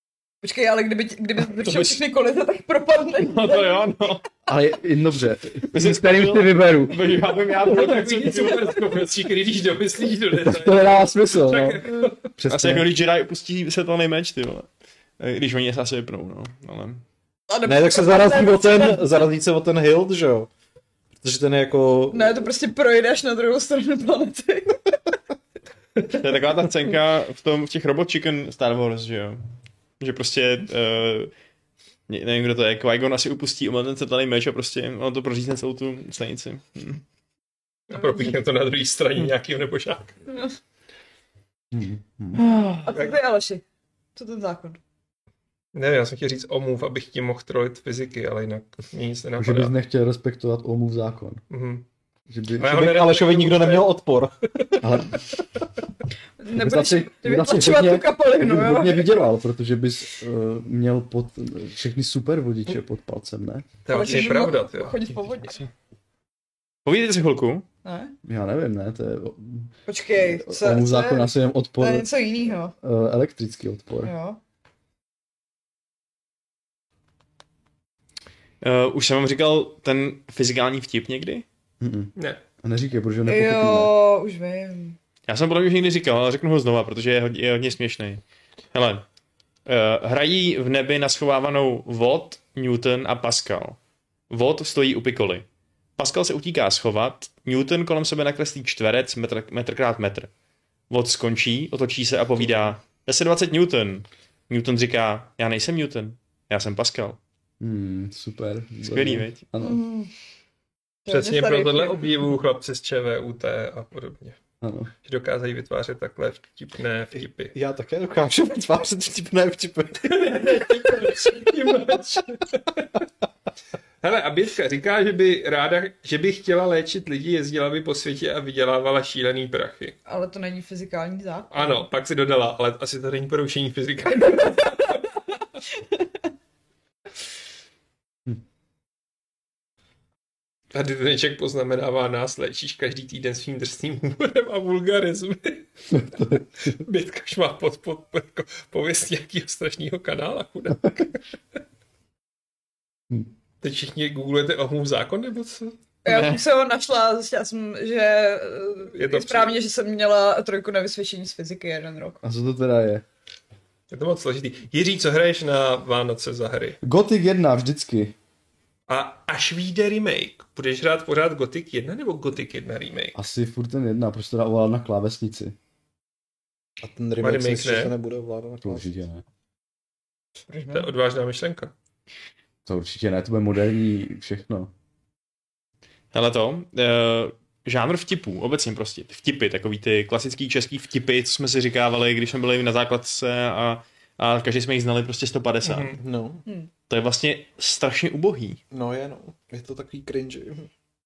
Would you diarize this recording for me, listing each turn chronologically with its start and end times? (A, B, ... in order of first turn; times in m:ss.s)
0:00.4-0:03.9 A
0:01.6-0:02.0 B
0:03.2-0:04.2 B
0:04.4-0:07.0 C
0:05.7-0:09.0 B
0:07.7-0:12.3 D
0:10.4-0:11.8 C
0:12.4-0:12.9 C
0:12.5-0:14.7 B
0:15.2-0:17.0 B
0:17.5-0:19.1 A
0:17.6-0:20.5 E
0:21.2-0:22.4 E
0:22.1-0:24.9 A
0:26.1-0:29.4 B
0:30.0-0:31.3 B
0:32.1-0:37.0 B
0:37.9-0:40.2 D
0:41.7-0:42.5 C
0:42.4-0:42.8 B
0:42.8-0:43.6 A
0:44.1-0:44.8 A
0:45.7-0:49.7 D
0:49.4-0:51.4 C
0:51.5-0:51.8 D
0:52.3-0:52.8 C
0:52.6-0:54.0 D
0:52.6-0:54.4 E
0:54.8-0:55.2 C
0:56.4-0:59.3 A
0:56.5-1:03.8 C
1:03.8-1:05.0 D
1:03.9-1:05.6 A
1:06.8-1:07.6 B
1:07.8-1:08.1 A
1:08.2-1:09.7 C
1:09.9-1:12.7 A
1:10.2-1:12.1 C
1:12.7-1:14.1 C
1:14.0-1:14.4 A
1:18.6-1:21.4 B
1:21.8-1:23.9 C
1:22.2-1:22.4 D
1:23.2-1:25.0 A
1:25.3-1:28.2 B
1:28.7-1:29.0 B
1:29.6-1:33.8 B
1:34.3-1:35.4 B
1:36.0-1:40.3 B
1:40.9-1:47.2 B
1:47.6-1:49.8 C
1:48.8-1:49.4 B
1:49.6-1:50.1 A
1:51.0-1:52.1 A
1:51.1-1:54.4 D
1:54.6-1:54.9 C
1:55.0-1:57.5 D
1:57.5-2:01.4 E
2:00.0-2:02.9 D
2:04.0-2:10.0 D
2:10.0-2:11.8 A
2:11.5-2:15.0 D
2:20.7-2:31.2 D
2:25.9-2:26.4 C
2:33.6-2:35.8 D
2:36.0-2:42.2 A
2:36.1-2:36.4 B
2:38.9-2:39.6 D
2:42.2-2:43.0 C
2:43.9-2:46.8 D
2:46.8-2:48.1 C
2:48.9-2:53.2 D
2:53.1-2:55.5 C
2:56.8-2:58.9 E
2:57.2-2:57.9 D
2:58.6-2:59.2 C
3:00.5-3:00.9 A
3:00.7-3:01.7 D
3:02.6-3:04.7 C
3:06.1-3:16.0 B
3:15.6-3:16.0 D
3:16.0-3:16.4 E
3:16.9-3:18.6 B
3:18.7-3:20.7 E